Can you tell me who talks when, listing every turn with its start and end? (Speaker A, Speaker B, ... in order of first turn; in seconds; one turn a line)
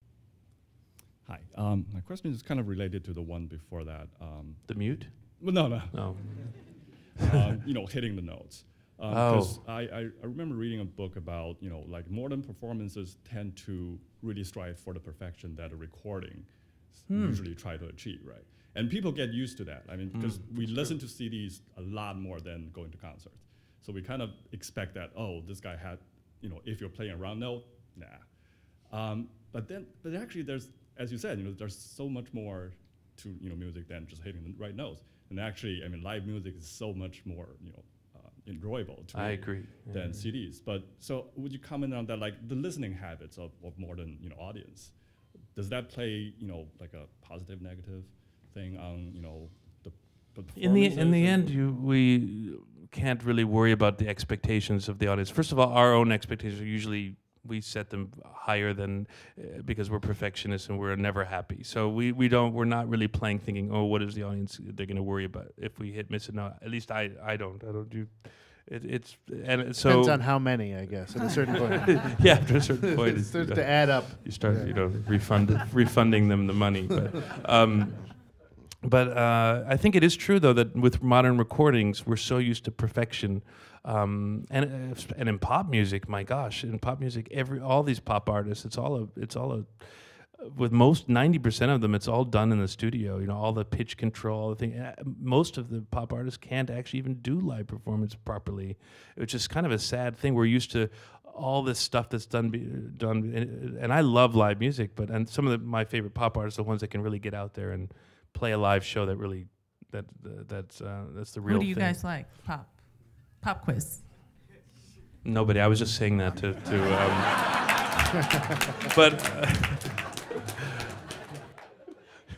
Speaker A: 1.2-51.6
Speaker B: 4.6-6.8
Speaker B: 9.1-9.6
Speaker B: 17.1-17.4
Speaker B: 20.1-21.0
Speaker B: 39.1-40.3
Speaker B: 50.5-70.8
Speaker C: 69.8-75.2
Speaker B: 71.8-112.0
Speaker D: 111.4-114.1
Speaker B: 115.2-117.9
Speaker B: 118.8-120.1